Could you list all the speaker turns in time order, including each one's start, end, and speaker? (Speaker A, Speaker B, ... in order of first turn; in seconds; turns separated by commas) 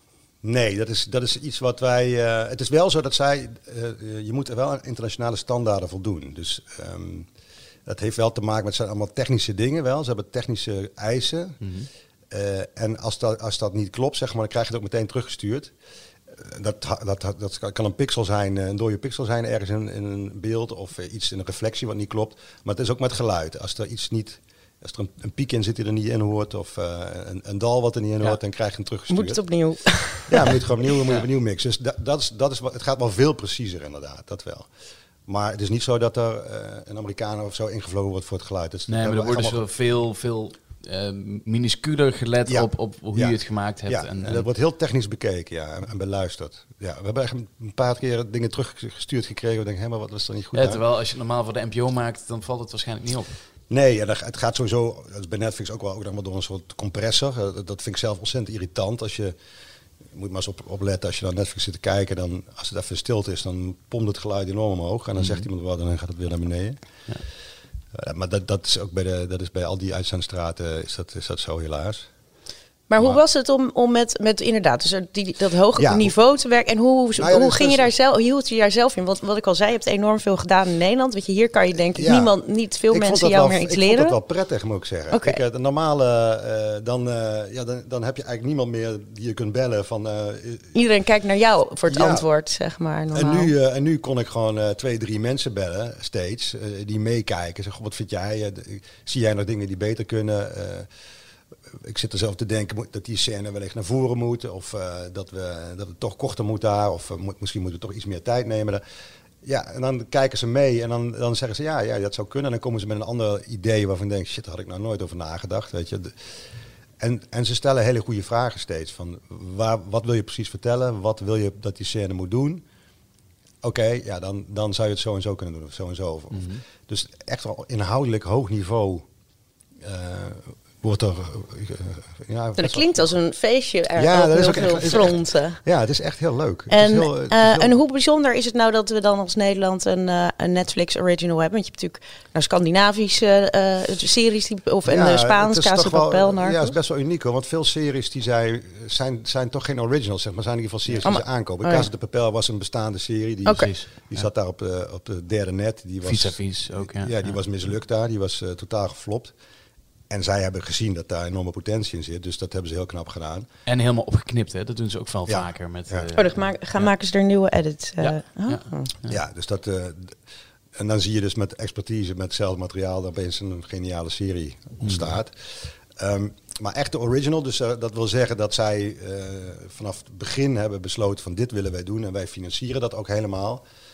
Speaker A: 0.4-7.3, Speaker A: 7.8-11.6, Speaker B: 11.6-11.9, Speaker A: 12.3-15.7, Speaker A: 16.3-29.4, Speaker C: 29.1-30.6, Speaker A: 30.3-34.7, Speaker A: 35.2-39.6, Speaker B: 38.9-44.5, Speaker A: 42.5-43.4, Speaker A: 43.9-50.8, Speaker B: 50.5-53.3, Speaker A: 53.7-59.4, Speaker A: 60.1-66.8, Speaker B: 65.2-65.5, Speaker A: 67.9-72.1, Speaker C: 72.9-84.2, Speaker A: 75.8-76.1, Speaker A: 77.2-77.9, Speaker A: 81.9-82.3, Speaker A: 82.9-90.7, Speaker C: 85.1-85.4, Speaker C: 90.7-93.5, Speaker A: 91.9-92.2, Speaker A: 93.1-100.9, Speaker A: 101.7-108.8, Speaker A: 109.4-116.4, Speaker A: 117.0-122.6, Speaker A: 123.6-129.1, Speaker B: 126.3-126.6, Speaker A: 129.8-133.0, Speaker C: 132.6-135.6, Speaker A: 134.0-137.7, Speaker C: 136.7-146.7, Speaker A: 144.8-159.3, Speaker C: 151.0-151.9, Speaker C: 153.4-153.7, Speaker B: 153.6-154.2, Speaker B: 156.0-157.4, Speaker A: 160.1-163.5, Speaker B: 163.7-166.9, Speaker A: 165.3-166.1, Speaker C: 166.1-168.9, Speaker B: 168.0-169.2, Speaker A: 169.1-170.2, Speaker A: 170.8-183.6, Speaker B: 174.8-175.1